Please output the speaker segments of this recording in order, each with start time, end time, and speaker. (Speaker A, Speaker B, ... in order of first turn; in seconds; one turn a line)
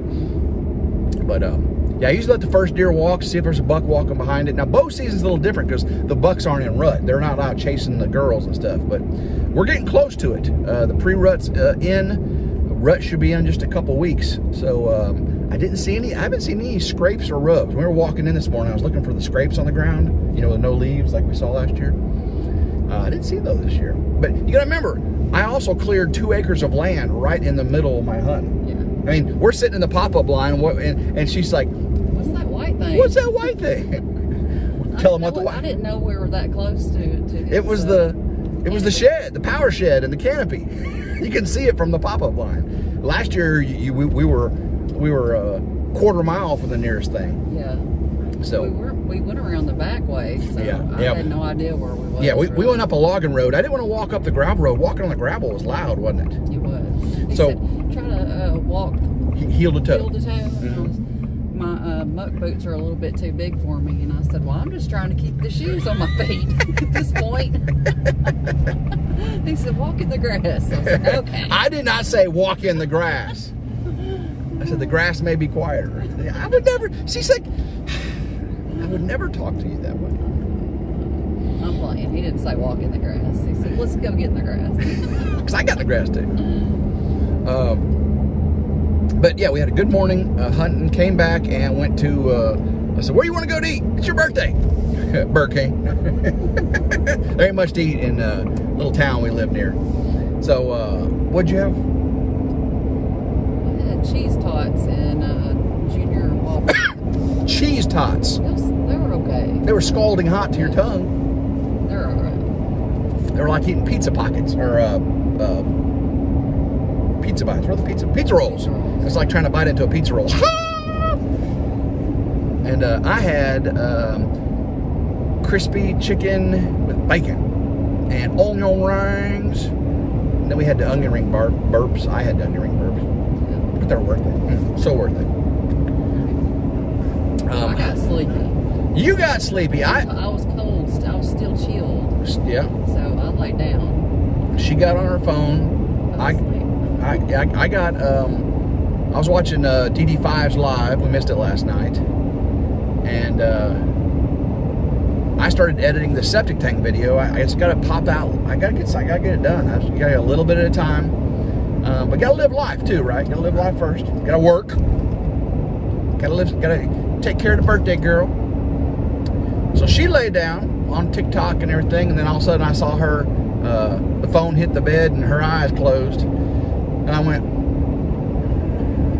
Speaker A: 0.1-0.5
Speaker B: 1.2-21.9
Speaker B: 22.9-31.7
Speaker A: 28.6-28.9
Speaker A: 32.1-33.5
Speaker B: 32.9-34.1
Speaker B: 34.8-35.6
Speaker A: 34.9-39.1
Speaker B: 37.5-47.4
Speaker A: 47.5-47.9
Speaker B: 48.4-48.7
Speaker A: 48.5-52.9
Speaker B: 50.5-51.2
Speaker B: 52.2-56.4
Speaker A: 56.5-59.1
Speaker B: 57.3-57.6
Speaker B: 59.4-60.9
Speaker A: 59.8-61.0
Speaker A: 61.5-67.9
Speaker A: 69.1-71.6
Speaker B: 70.8-73.5
Speaker A: 74.0-74.9
Speaker B: 74.6-78.2
Speaker A: 78.7-79.0
Speaker B: 78.7-80.2
Speaker A: 80.2-85.3
Speaker B: 85.1-86.3
Speaker B: 87.4-87.9
Speaker B: 89.2-99.8
Speaker B: 100.4-101.8
Speaker A: 103.6-107.0
Speaker B: 107.5-108.4
Speaker A: 108.4-109.7
Speaker B: 109.6-111.1
Speaker A: 110.5-110.9
Speaker A: 111.8-112.5
Speaker B: 113.3-115.7
Speaker B: 117.2-121.2
Speaker A: 118.3-119.3
Speaker B: 122.6-124.3
Speaker B: 125.4-127.4
Speaker B: 128.1-129.7
Speaker B: 130.4-133.1
Speaker A: 133.4-133.7
Speaker B: 133.7-135.3
Speaker A: 136.2-136.5
Speaker B: 137.4-138.0
Speaker A: 137.5-138.6
Speaker B: 138.9-140.1
Speaker A: 139.8-144.1
Speaker B: 142.2-142.7
Speaker B: 144.5-148.5
Speaker A: 146.1-146.7
Speaker B: 149.1-152.0
Speaker B: 153.0-153.8
Speaker B: 155.4-161.1
Speaker B: 161.8-164.8
Speaker B: 166.2-168.3
Speaker B: 169.7-176.3
Speaker B: 177.1-177.4